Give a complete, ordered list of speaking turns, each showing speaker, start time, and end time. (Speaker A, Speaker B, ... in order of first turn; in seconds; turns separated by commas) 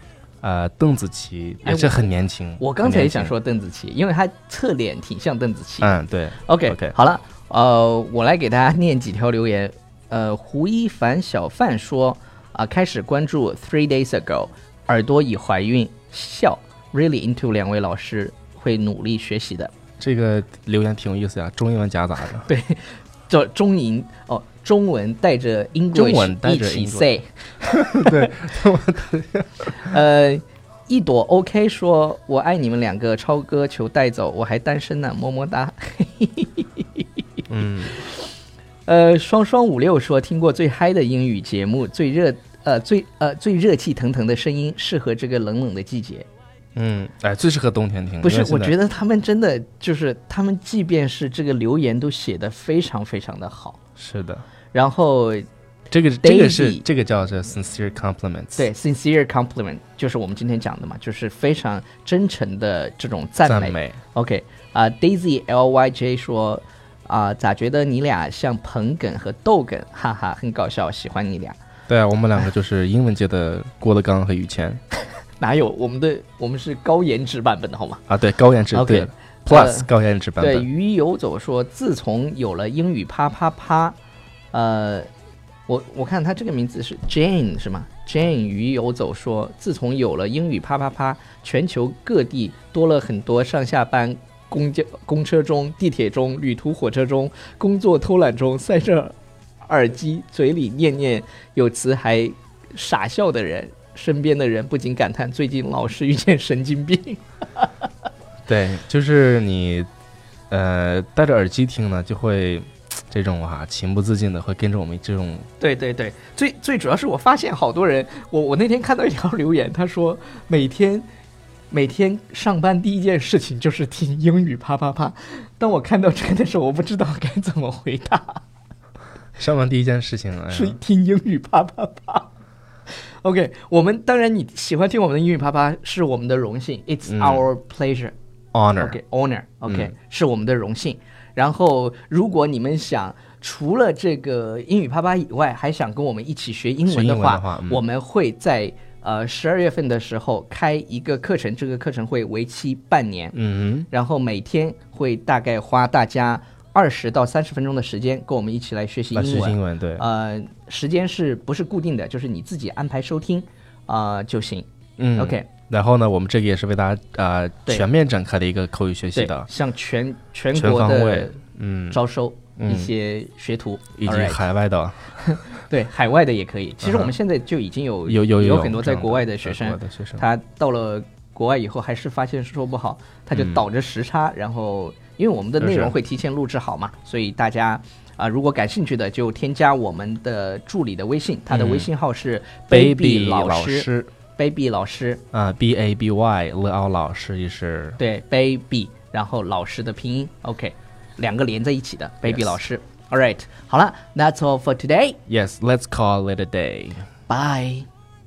Speaker A: 0.4-3.4, Speaker B: 1.6-19.7, Speaker A: 5.8-7.0, Speaker A: 20.0-22.5, Speaker B: 22.4-28.3, Speaker A: 25.9-27.1, Speaker A: 27.7-30.0, Speaker B: 29.8-37.0, Speaker A: 37.5-38.0, Speaker B: 37.9-38.3, Speaker B: 38.9-46.3, Speaker A: 46.8-48.8, Speaker B: 48.2-53.8, Speaker A: 54.0-54.4, Speaker B: 54.7-55.5, Speaker A: 55.9-58.7, Speaker B: 56.2-56.9, Speaker B: 58.6-71.6, Speaker A: 63.5-64.0, Speaker A: 71.9-74.8, Speaker B: 75.4-78.0, Speaker A: 78.1-80.7, Speaker B: 78.7-84.0, Speaker B: 84.5-85.1, Speaker B: 85.7-107.7, Speaker A: 108.5-109.9, Speaker A: 110.5-115.5, Speaker B: 115.6-121.1, Speaker B: 121.7-128.4, Speaker A: 129.4-130.8, Speaker B: 130.5-132.3, Speaker B: 133.2-138.2, Speaker A: 137.1-137.4, Speaker A: 138.5-139.0, Speaker B: 138.8-153.4, Speaker A: 146.9-147.8, Speaker A: 153.3-153.9, Speaker B: 153.9-165.5, Speaker A: 159.1-160.0, Speaker A: 165.0-169.5, Speaker B: 169.2-171.4, Speaker A: 170.5-172.0, Speaker B: 171.9-174.4, Speaker A: 172.6-172.9, Speaker A: 174.0-175.2, Speaker B: 175.2-195.2, Speaker A: 176.8-177.1, Speaker A: 178.1-180.2, Speaker A: 183.3-183.6, Speaker A: 185.6-185.9, Speaker A: 191.5-191.9, Speaker A: 192.7-194.1, Speaker A: 195.3-198.0, Speaker B: 198.0-205.2, Speaker A: 202.2-202.6, Speaker A: 205.3-207.1, Speaker B: 207.3-207.9